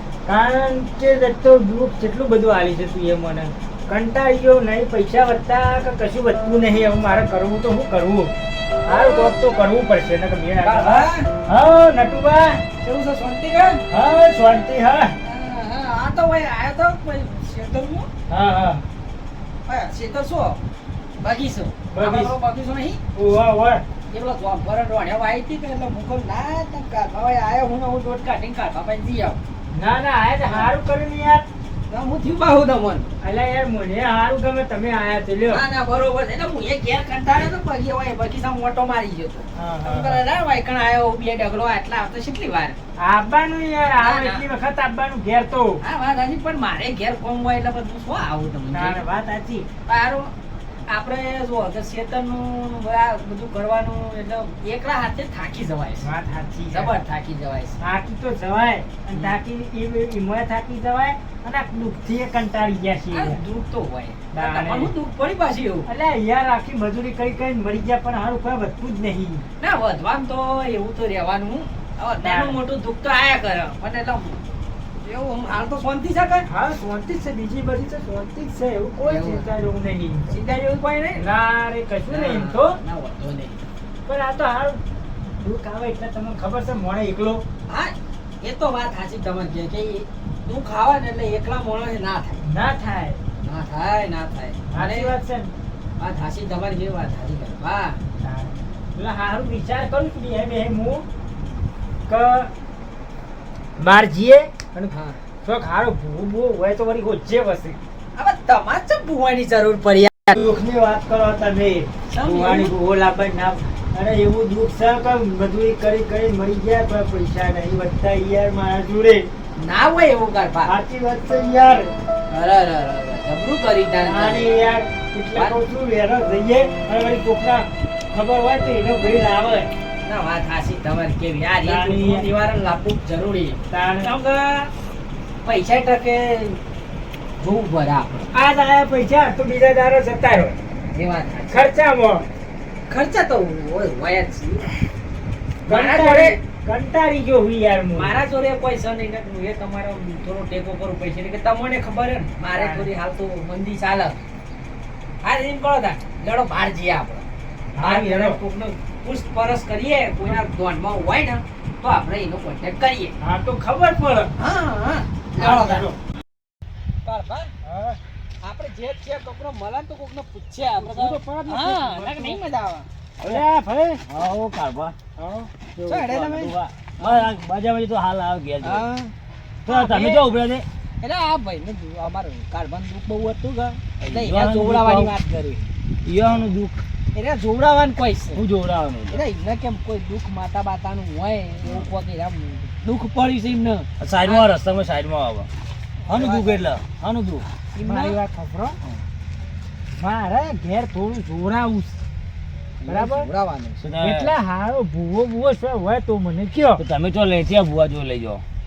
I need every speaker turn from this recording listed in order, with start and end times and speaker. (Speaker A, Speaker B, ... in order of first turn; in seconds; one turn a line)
Speaker A: 0.2-8.3
Speaker A: 8.9-12.6
Speaker B: 8.9-9.3
Speaker B: 10.6-11.3
Speaker B: 12.8-13.8
Speaker A: 13.9-15.1
Speaker B: 15.2-18.1
Speaker A: 18.3-18.8
Speaker B: 19.7-20.6
Speaker B: 21.2-23.0
Speaker A: 21.9-22.3
Speaker A: 23.1-23.8
Speaker B: 24.1-29.4
Speaker A: 29.7-31.4
Speaker B: 31.9-33.1
Speaker A: 33.2-35.6
Speaker B: 35.5-42.8
Speaker A: 39.5-40.2
Speaker A: 43.0-45.8
Speaker B: 44.0-44.4
Speaker B: 45.8-49.0
Speaker A: 48.7-49.7
Speaker B: 49.9-50.3
Speaker B: 50.9-56.1
Speaker A: 56.0-57.0
Speaker B: 56.7-57.8
Speaker A: 57.8-63.4
Speaker B: 63.1-65.9
Speaker A: 64.3-64.9
Speaker A: 65.9-69.4
Speaker B: 69.6-74.4
Speaker A: 72.2-72.5
Speaker B: 75.0-76.5
Speaker A: 76.5-80.3
Speaker B: 79.0-79.5
Speaker B: 80.3-81.2
Speaker A: 81.2-82.8
Speaker B: 82.1-83.7
Speaker A: 84.1-84.8
Speaker A: 85.4-87.4
Speaker B: 87.7-92.4
Speaker A: 92.4-93.2
Speaker B: 93.4-95.1
Speaker A: 94.7-95.5
Speaker B: 96.0-98.0
Speaker A: 98.2-101.0
Speaker A: 102.1-102.5
Speaker A: 103.8-107.8
Speaker B: 104.9-105.2
Speaker B: 108.2-110.3
Speaker A: 110.3-119.3
Speaker B: 112.1-112.7
Speaker B: 119.6-120.7
Speaker A: 120.7-121.9
Speaker B: 122.3-124.5
Speaker A: 124.0-129.7
Speaker B: 130.0-134.7
Speaker A: 131.6-132.3
Speaker A: 133.7-134.1
Speaker B: 135.4-136.6
Speaker B: 137.4-138.3
Speaker A: 138.3-140.6
Speaker B: 140.9-141.6
Speaker A: 141.5-142.3
Speaker B: 142.9-144.7
Speaker B: 145.7-146.4
Speaker A: 145.7-148.1
Speaker B: 148.0-154.2
Speaker A: 152.6-152.9
Speaker B: 155.2-157.3
Speaker A: 157.8-158.4
Speaker B: 157.8-163.1
Speaker A: 163.2-164.3
Speaker B: 164.4-165.9
Speaker A: 165.4-165.9
Speaker B: 167.0-167.5
Speaker A: 167.7-168.0
Speaker B: 168.4-172.9
Speaker A: 170.8-172.4
Speaker A: 173.2-174.0
Speaker C: 174.1-174.9
Speaker A: 175.2-175.5
Speaker C: 175.8-178.9
Speaker B: 175.8-177.3
Speaker B: 178.6-179.1
Speaker B: 179.7-180.2
Speaker C: 179.7-180.7
Speaker B: 181.0-185.7
Speaker C: 184.0-185.1
Speaker C: 186.0-186.8
Speaker B: 187.1-188.4
Speaker C: 188.3-189.2
Speaker B: 189.1-194.4
Speaker C: 191.6-191.9
Speaker C: 194.0-195.5
Speaker C: 196.1-197.5
Speaker B: 196.1-196.6
Speaker B: 197.8-198.2
Speaker A: 197.8-198.8
Speaker A: 199.9-202.0
Speaker B: 202.8-203.8
Speaker A: 202.9-203.3
Speaker C: 203.8-204.3
Speaker A: 204.0-206.8
Speaker C: 206.8-208.4